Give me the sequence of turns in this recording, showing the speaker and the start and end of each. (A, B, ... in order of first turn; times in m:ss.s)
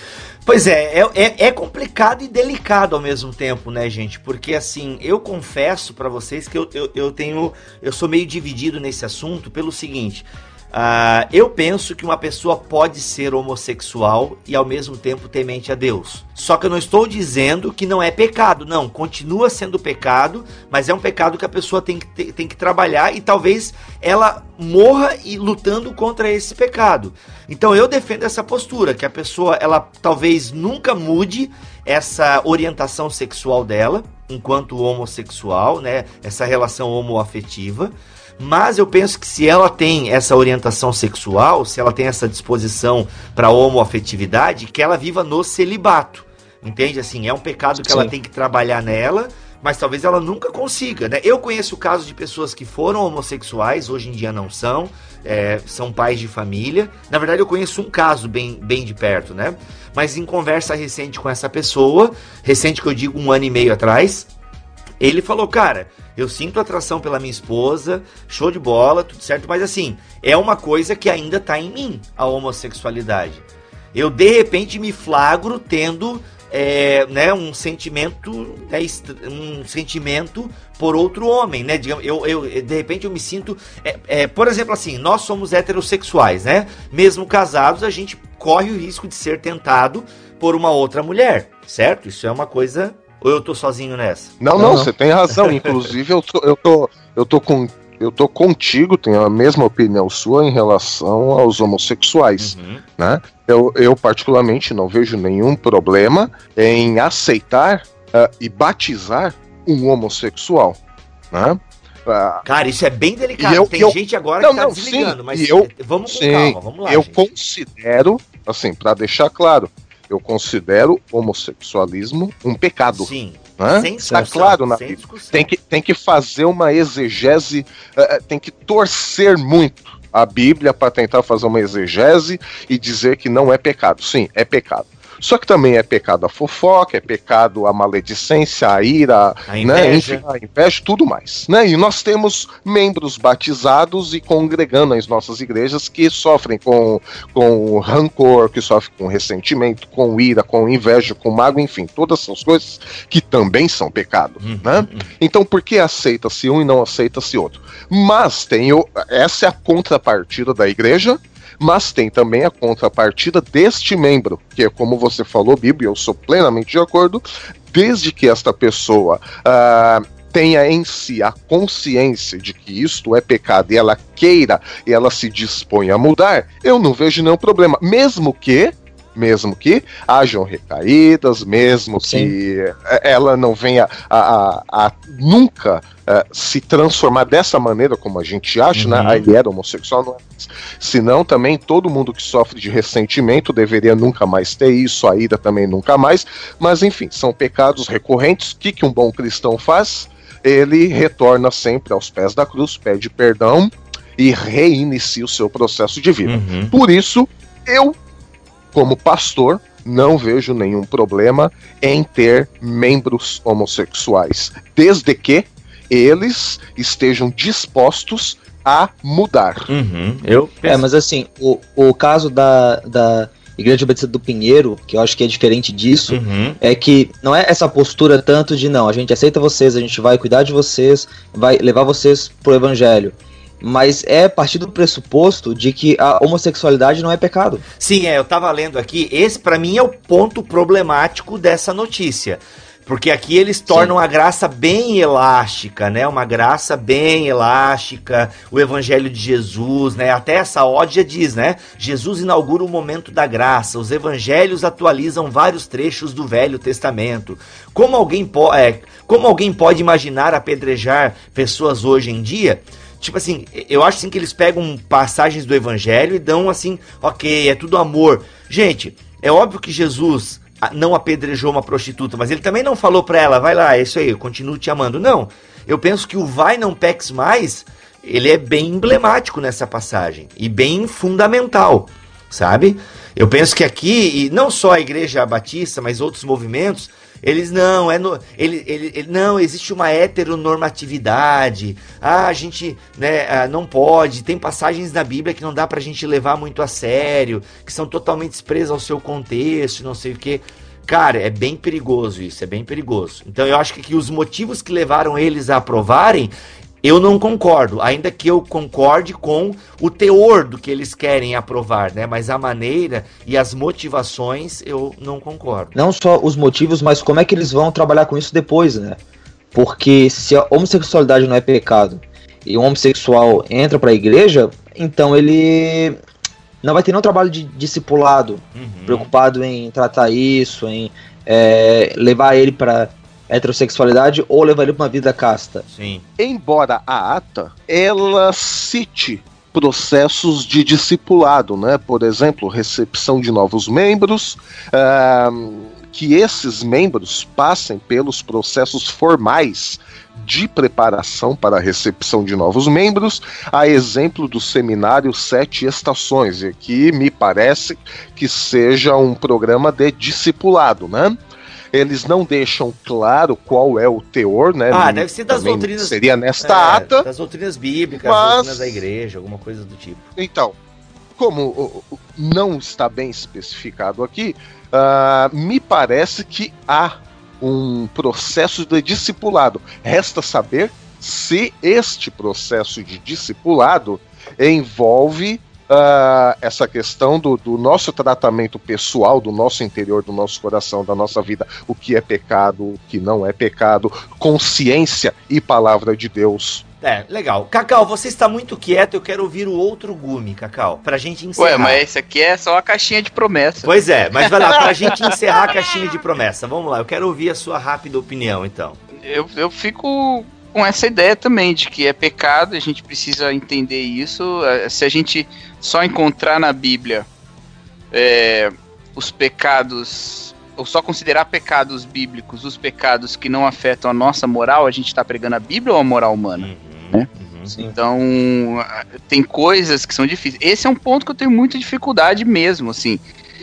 0:00.5-1:04.3 A
0:47.8-0:48.1 B
1:05.0-1:34.4 A
1:34.4-1:50.8 C
1:34.6-1:34.9 B
1:42.4-1:42.8 A
1:51.3-1:52.4 C
1:52.5-1:57.2 A
1:53.4-3:28.0 C
2:02.9-2:05.5 A
2:19.5-2:20.2 A
2:34.4-2:35.1 A
3:02.0-3:02.4 B
3:08.7-3:09.3 A
3:26.2-3:26.8 A
3:28.7-3:39.7 C
3:39.7-3:40.8 A
3:40.7-3:57.6 B
3:46.1-3:46.6 A
3:57.8-5:15.8 A
5:15.8-5:19.0 B
5:19.5-5:26.0 B
5:26.6-5:35.6 B
5:28.6-5:29.1 A
5:35.7-5:36.0 A
5:36.2-6:01.2 C
6:01.7-6:07.1 C
6:04.7-6:10.1 A
6:08.0-6:08.8 C
6:10.2-6:10.6 C
6:11.2-6:36.6 C
6:36.8-6:41.8 A
6:41.4-6:43.7 D
6:43.6-6:48.8 A
6:44.5-6:44.9 D
6:49.0-6:57.1 D
6:57.9-7:07.1 D
7:06.4-7:07.5 A
7:07.5-7:07.7 B
7:07.7-7:13.0 D